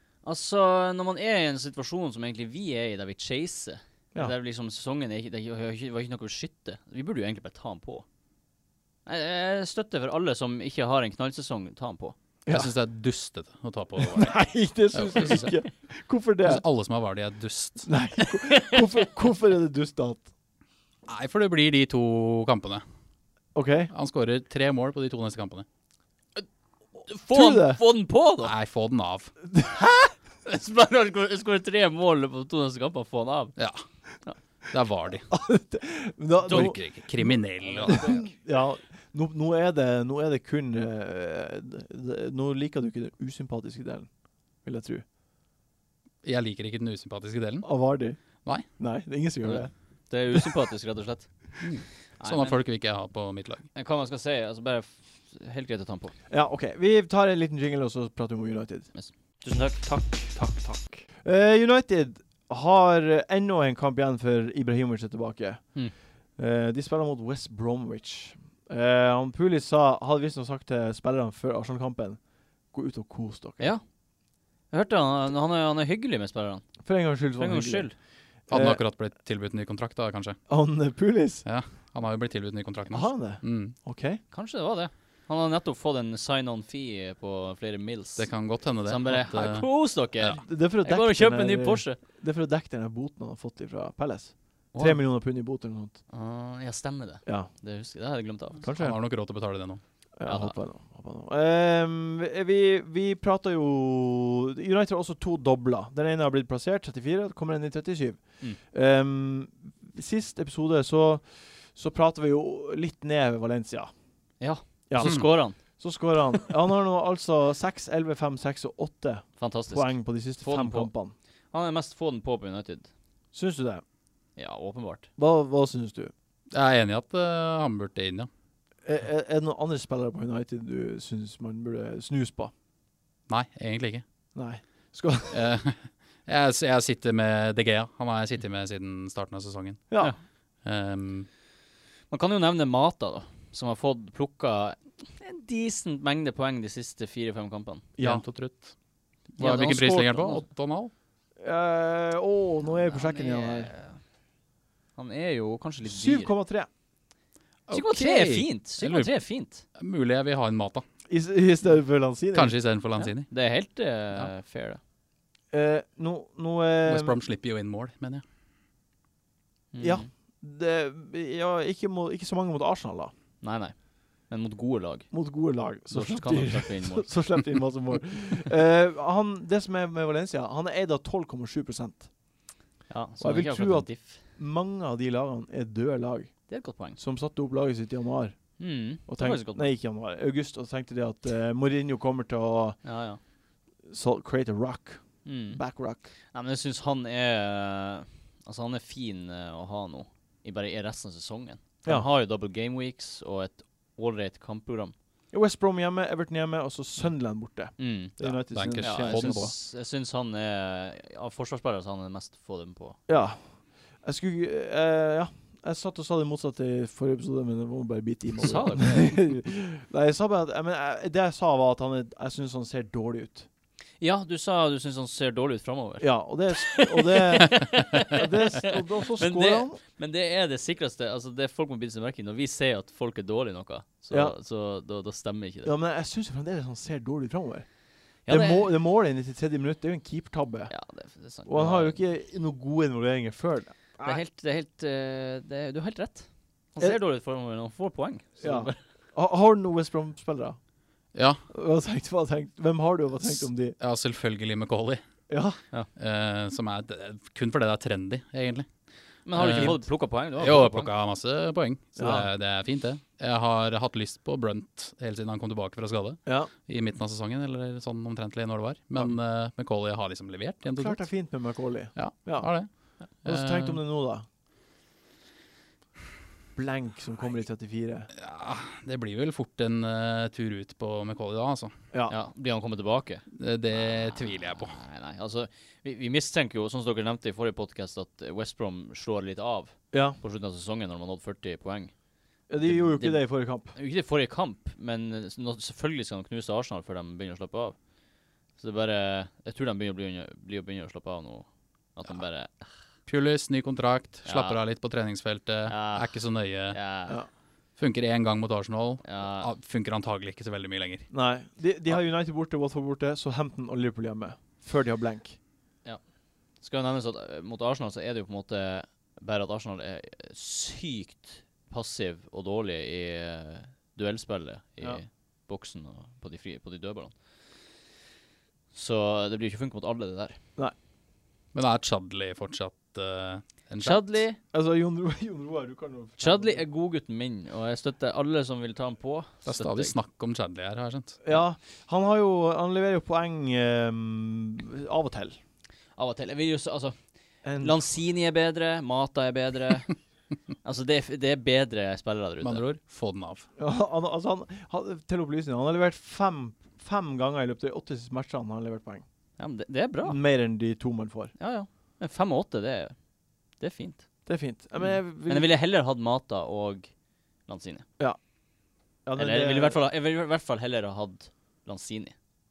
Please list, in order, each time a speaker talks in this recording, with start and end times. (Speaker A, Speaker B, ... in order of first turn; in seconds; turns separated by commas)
Speaker A: 0.2-8.0, Speaker A: 9.1-12.2, Speaker B: 12.4-12.7, Speaker C: 12.5-15.5, Speaker B: 14.0-16.6, Speaker C: 16.4-17.9, Speaker B: 17.9-20.3, Speaker A: 18.4-18.8, Speaker C: 21.1-22.8, Speaker B: 23.5-23.9, Speaker C: 23.9-25.6, Speaker A: 27.1-28.5, Speaker B: 27.3-27.8, Speaker C: 28.4-29.3, Speaker B: 29.5-30.1, Speaker A: 30.4-33.5, Speaker C: 33.6-33.8, Speaker C: 34.7-35.3, Speaker B: 35.3-37.3, Speaker C: 36.4-38.1, Speaker A: 36.5-36.8, Speaker A: 37.6-38.3, Speaker B: 37.9-44.1, Speaker B: 44.6-45.0, Speaker C: 46.2-47.8, Speaker B: 47.6-48.2, Speaker B: 48.7-49.7, Speaker A: 49.4-51.3, Speaker C: 51.6-53.6, Speaker A: 52.2-52.6, Speaker A: 53.7-56.1, Speaker B: 56.3-58.9, Speaker A: 58.9-61.0, Speaker B: 61.2-65.7, Speaker B: 66.4-72.2, Speaker B: 72.7-73.7, Speaker A: 74.7-76.7, Speaker B: 76.8-77.9, Speaker A: 77.4-77.9, Speaker B: 78.5-78.8, Speaker C: 78.5-80.4, Speaker B: 80.5-81.4, Speaker C: 81.4-83.8, Speaker B: 82.9-84.2, Speaker A: 84.3-88.3, Speaker C: 88.2-89.7, Speaker A: 88.8-92.0, Speaker B: 90.4-96.0, Speaker A: 94.7-95.0, Speaker A: 96.1-98.6, Speaker B: 98.6-99.0, Speaker C: 98.8-99.8, Speaker B: 100.2-113.9, Speaker A: 100.2-100.5, Speaker A: 114.4-115.6, Speaker B: 114.9-121.1, Speaker C: 115.0-115.2, Speaker A: 119.4-120.9, Speaker A: 121.5-122.9, Speaker B: 123.3-123.8, Speaker A: 124.3-125.1, Speaker B: 125.2-126.1, Speaker C: 126.5-128.3, Speaker B: 128.8-132.5, Speaker C: 133.3-134.0, Speaker B: 134.3-135.5, Speaker C: 135.3-140.0, Speaker C: 140.6-141.3, Speaker A: 142.1-147.9, Speaker B: 148.0-148.2, Speaker C: 148.0-148.7, Speaker B: 149.4-150.4, Speaker C: 149.4-150.9, Speaker B: 151.4-153.7, Speaker A: 152.9-154.0, Speaker A: 154.9-156.3, Speaker B: 155.8-156.7, Speaker C: 157.7-159.2, Speaker A: 157.7-159.6, Speaker C: 159.7-160.8, Speaker B: 161.1-162.6, Speaker C: 162.3-163.3, Speaker A: 163.0-164.8, Speaker B: 165.5-167.2, Speaker C: 166.8-168.2, Speaker A: 169.7-170.1, Speaker B: 169.8-173.1, Speaker A: 173.4-173.8, Speaker A: 174.3-175.1, Speaker B: 175.1-182.1, Speaker A: 175.9-177.4, Speaker A: 182.9-184.2, Speaker B: 183.2-192.8, Speaker A: 186.5-187.0, Speaker A: 188.6-189.7, Speaker A: 192.8-193.2, Speaker B: 193.9-196.1, Speaker A: 195.2-195.6, Speaker A: 196.3-204.9, Speaker B: 205.3-209.5, Speaker A: 207.8-213.0, Speaker C: 208.5-209.5, Speaker B: 213.1-223.5, Speaker A: 218.4-219.2, Speaker A: 224.0-235.7, Speaker B: 226.0-229.8, Speaker B: 235.6-237.7, Speaker A: 238.2-238.7, Speaker B: 238.2-240.7, Speaker A: 240.7-242.0, Speaker B: 241.4-244.2, Speaker A: 244.0-248.8, Speaker B: 248.4-250.6, Speaker C: 251.1-251.4, Speaker B: 251.5-253.8, Speaker C: 253.8-255.0, Speaker B: 255.3-255.6, Speaker C: 255.9-258.7, Speaker A: 259.2-260.9, Speaker C: 259.3-259.8, Speaker B: 259.5-259.8, Speaker C: 260.4-271.1, Speaker B: 262.0-262.3, Speaker B: 270.7-272.5, Speaker C: 271.9-272.7, Speaker C: 273.2-273.8, Speaker B: 273.2-274.2, Speaker B: 276.5-278.1, Speaker C: 278.1-281.7, Speaker A: 282.1-291.9, Speaker C: 283.3-284.8, Speaker B: 289.9-290.2, Speaker B: 292.5-293.7, Speaker A: 292.6-297.8, Speaker A: 298.6-302.5, Speaker C: 303.1-306.8, Speaker A: 304.2-304.6, Speaker A: 305.6-307.2, Speaker C: 307.8-311.1, Speaker A: 309.0-309.5, Speaker B: 311.1-315.4, Speaker A: 316.6-327.1, Speaker A: 328.7-330.4, Speaker C: 331.5-334.2, Speaker A: 333.8-334.4, Speaker B: 334.5-336.6, Speaker A: 336.2-339.9, Speaker C: 339.4-341.2, Speaker B: 341.2-345.4, Speaker A: 346.0-346.9, Speaker B: 347.4-347.8, Speaker A: 347.6-349.9, Speaker A: 350.6-352.6, Speaker C: 352.4-353.5, Speaker B: 353.6-359.0, Speaker A: 359.4-360.2, Speaker B: 360.0-361.3, Speaker A: 361.4-362.9, Speaker A: 363.6-364.0, Speaker B: 364.2-365.5, Speaker A: 364.8-366.9, Speaker A: 367.5-367.9, Speaker B: 369.1-369.8, Speaker A: 369.1-372.1